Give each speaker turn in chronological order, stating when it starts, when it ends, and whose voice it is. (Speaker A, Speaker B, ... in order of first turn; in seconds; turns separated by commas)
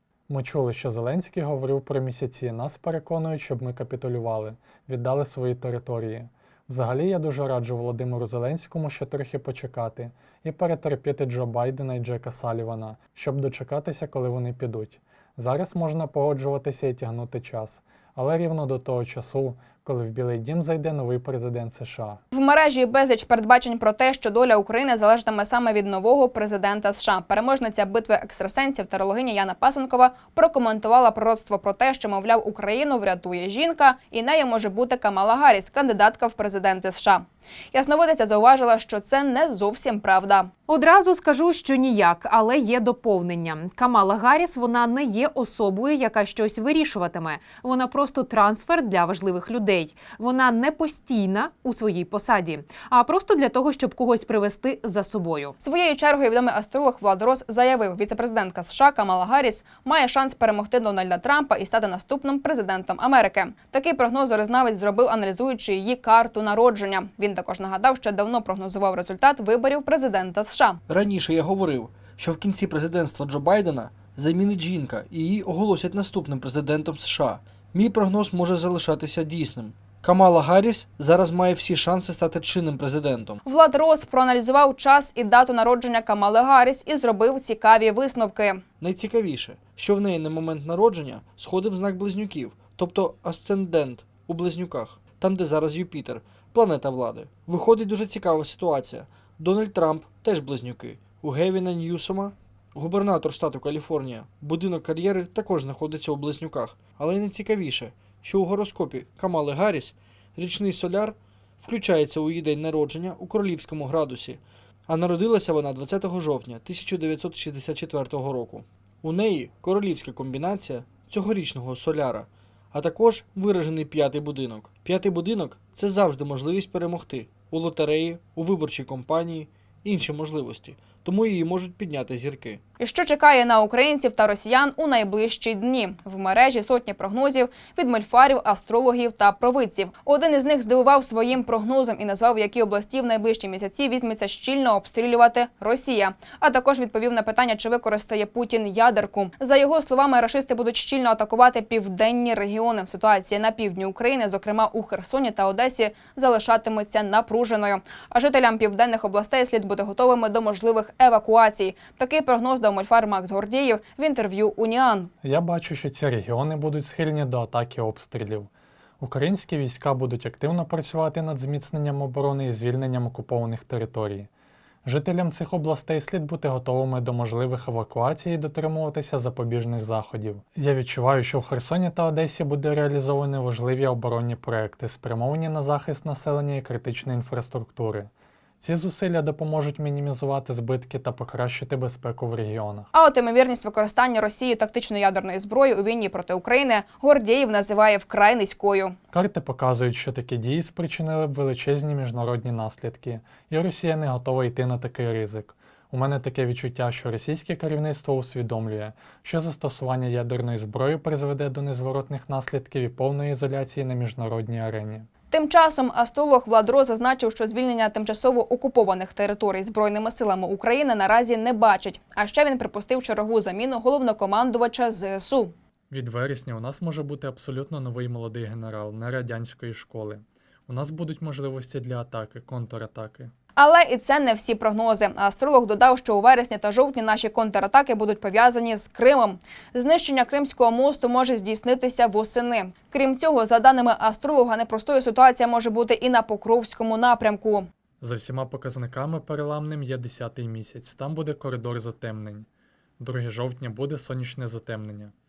Speaker A: 0.3-22.2, Speaker B: 22.3-40.5, Speaker C: 40.7-55.5, Speaker B: 55.6-70.8, Speaker D: 70.9-83.4, Speaker B: 83.4-88.6, Speaker D: 88.8-132.6, Speaker B: 132.8-165.1, Speaker A: 165.2-174.3, Speaker A: 174.8-188.1, Speaker A: 188.6-192.9, Speaker B: 192.9-198.9, Speaker A: 199.1-215.1, Speaker B: 215.3-225.5, Speaker A: 225.9-233.3, Speaker B: 233.6-247.7, Speaker A: 248.0-252.5, Speaker A: 253.0-255.1